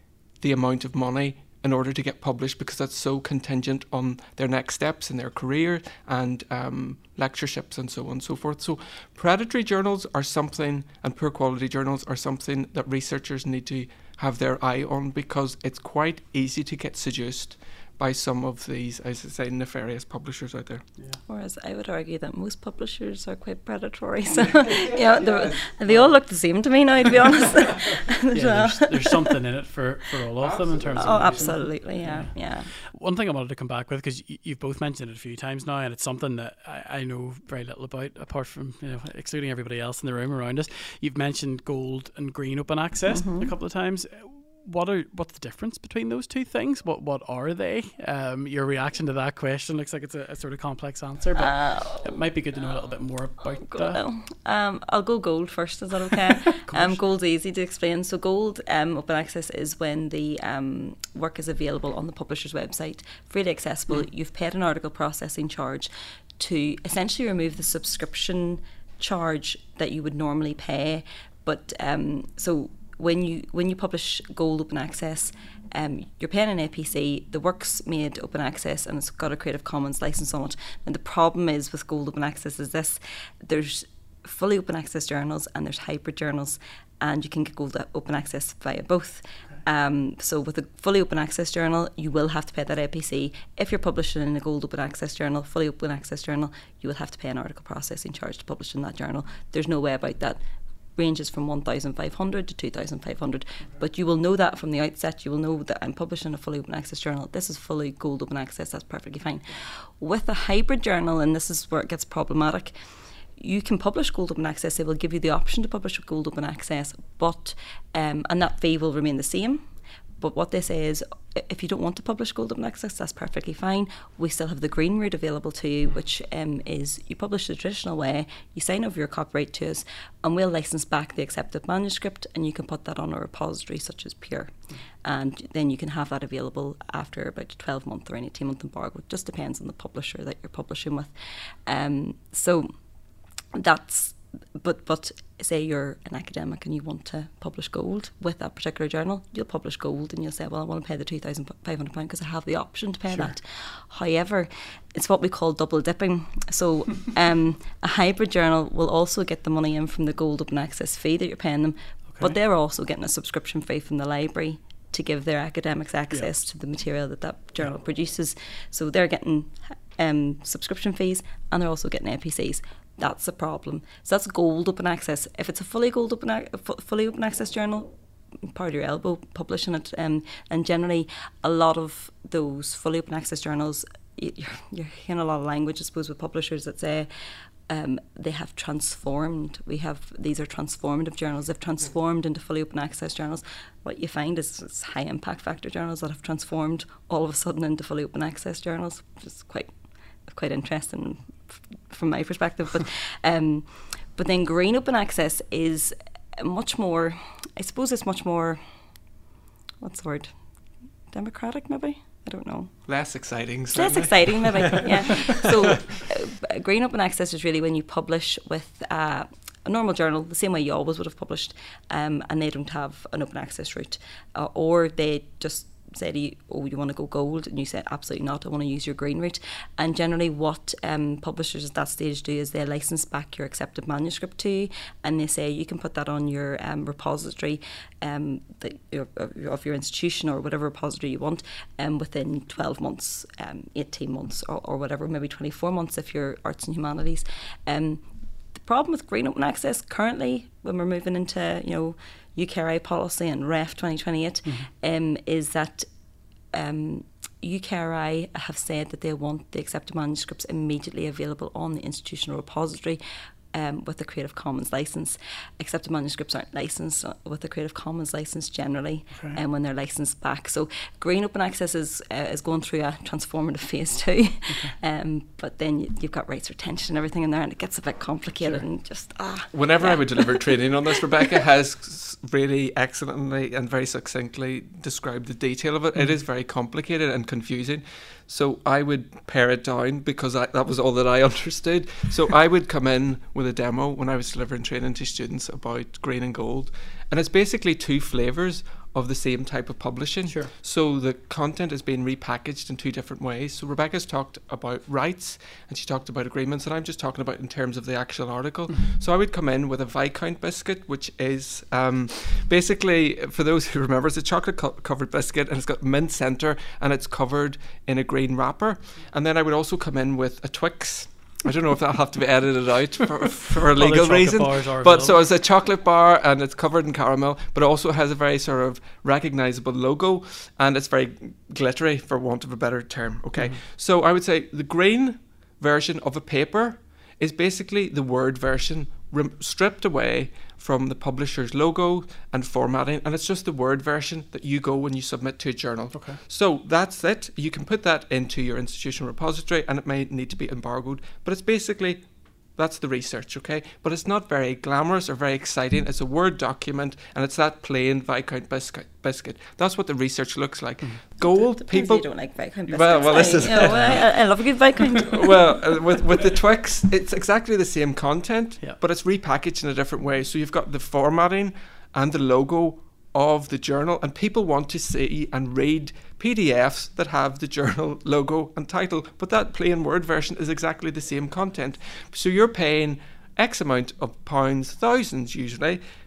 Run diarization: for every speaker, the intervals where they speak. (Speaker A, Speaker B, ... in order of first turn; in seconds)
Speaker A: 0.4-20.9, 24.7-26.1, 30.4-31.6, 212.9-215.7, 279.5-385.8
Speaker B: 21.3-29.2, 30.9-32.7, 43.1-43.5, 51.4-52.2, 53.4-100.4, 101.0-119.7, 120.2-142.7, 143.5-208.6, 209.8-210.4, 211.1-213.0, 213.7-255.9, 256.5-280.7, 361.2-365.7
Speaker C: 28.3-32.4, 32.9-54.0, 56.6-57.0, 153.1-153.3, 162.1-162.4, 254.4-254.7, 269.1-269.4, 300.2-300.5, 323.8-325.2, 333.4-333.6, 345.9-346.2